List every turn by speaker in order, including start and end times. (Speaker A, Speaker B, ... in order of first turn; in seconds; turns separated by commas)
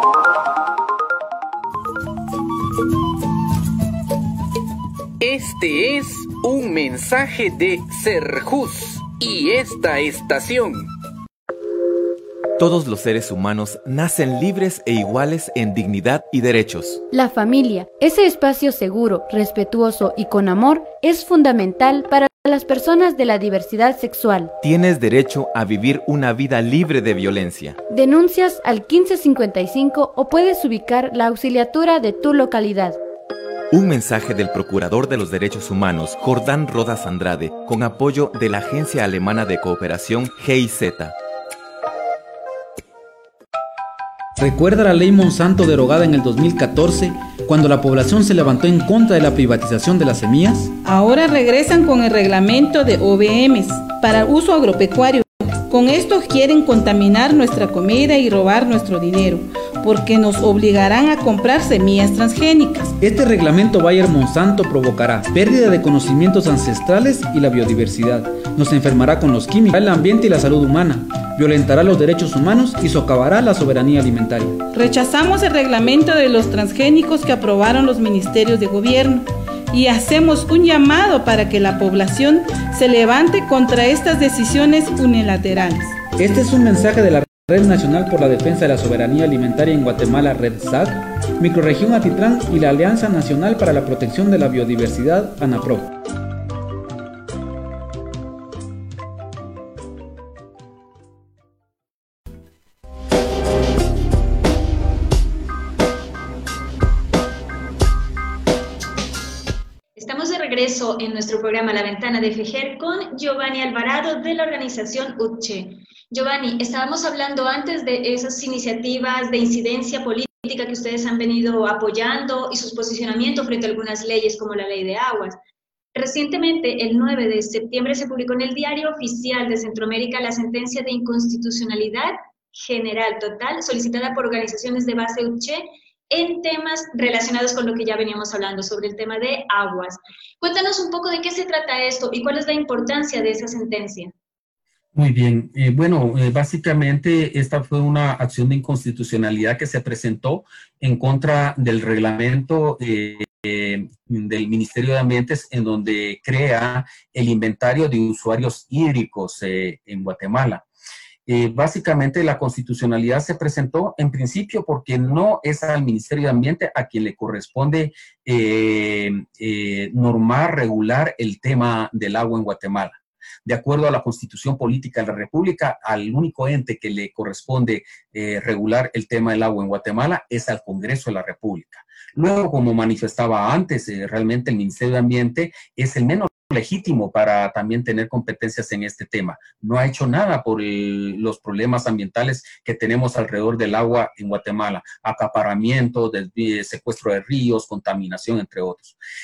Speaker A: 5.2-10.9, Speaker B: 12.6-17.0, Speaker C: 17.1-24.5, Speaker B: 24.6-27.8, Speaker C: 27.9-33.0, Speaker B: 33.7-41.1, Speaker D: 44.4-50.7, Speaker E: 50.8-62.9, Speaker D: 63.0-74.6, Speaker E: 74.7-86.0, Speaker D: 86.2-95.9, Speaker F: 110.0-125.4, Speaker F: 125.9-144.1, Speaker G: 144.9-160.6, Speaker G: 161.2-199.0